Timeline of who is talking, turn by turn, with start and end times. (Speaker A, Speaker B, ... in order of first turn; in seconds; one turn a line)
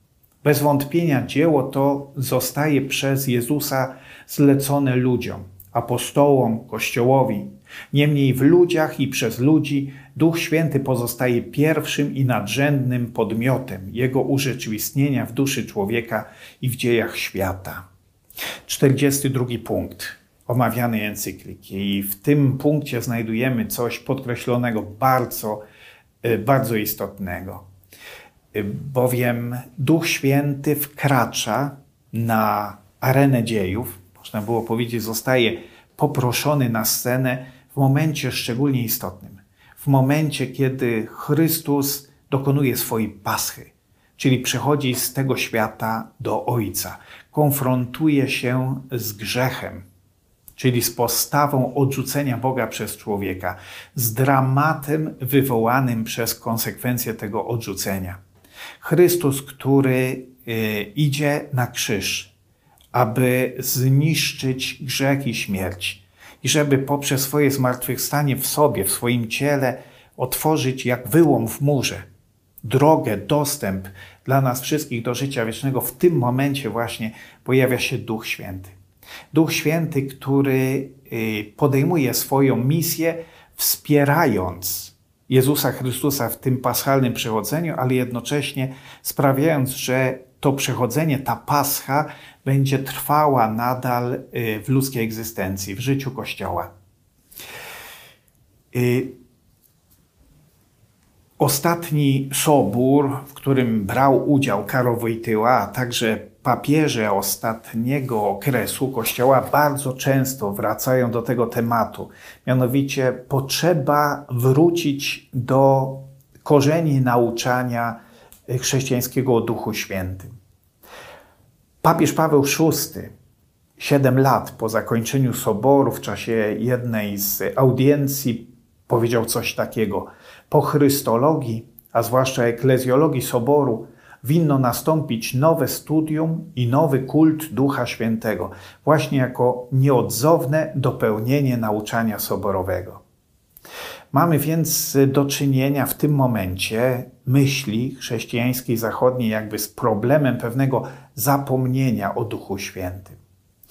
Speaker A: 0.4-17.8
Speaker A: 18.7-25.6
Speaker A: 26.2-27.6
Speaker A: 28.5-49.9
Speaker A: 50.6-58.2
Speaker A: 58.8-62.3
Speaker A: 62.9-72.0
Speaker A: 72.6-78.8
Speaker A: 79.3-96.7
Speaker A: 98.7-99.2
Speaker A: 101.4-120.3
Speaker A: 121.8-123.1
Speaker A: 123.8-143.0
Speaker A: 144.1-153.2